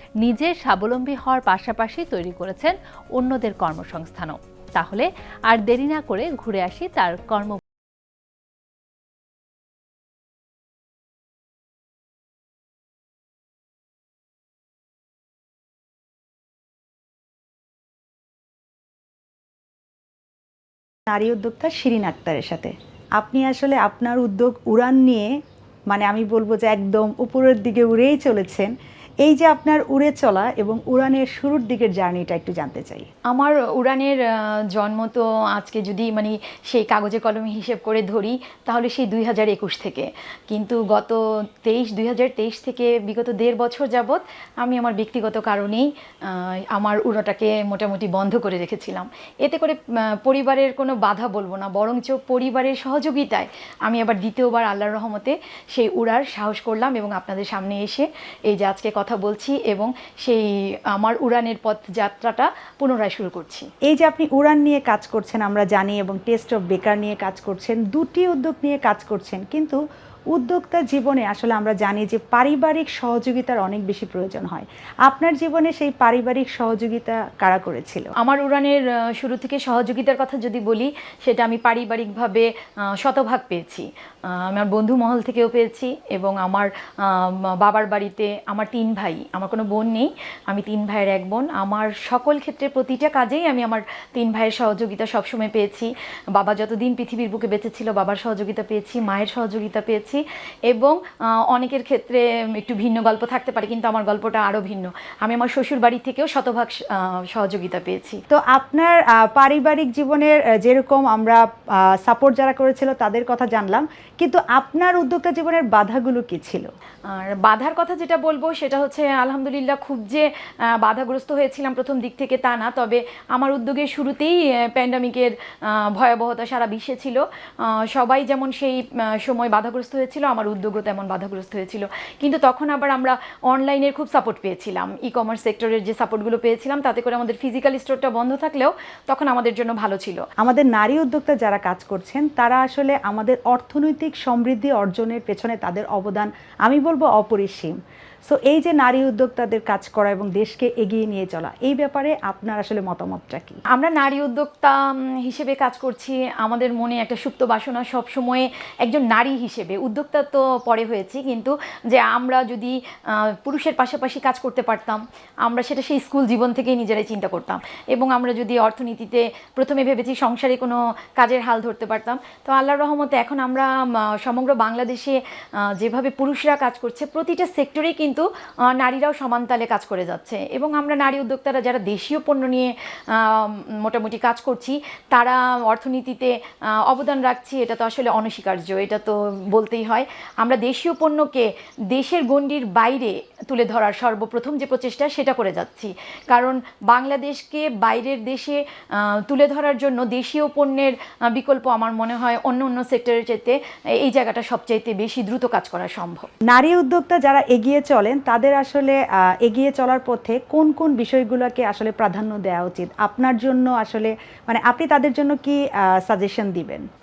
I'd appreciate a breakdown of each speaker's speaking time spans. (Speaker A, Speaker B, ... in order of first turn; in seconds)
Speaker A: 0.2-7.6
Speaker B: 21.1-25.3, 25.9-28.7, 29.2-33.0, 63.9-69.8, 70.3-78.1, 108.3-111.4, 112.0-116.7, 140.4-147.7, 148.3-153.6, 206.5-216.8
Speaker C: 33.3-63.7, 78.2-82.5, 83.0-83.8, 84.4-101.0, 101.5-108.2, 117.1-140.2, 153.7-175.2, 175.8-186.3, 186.8-198.6, 199.2-206.3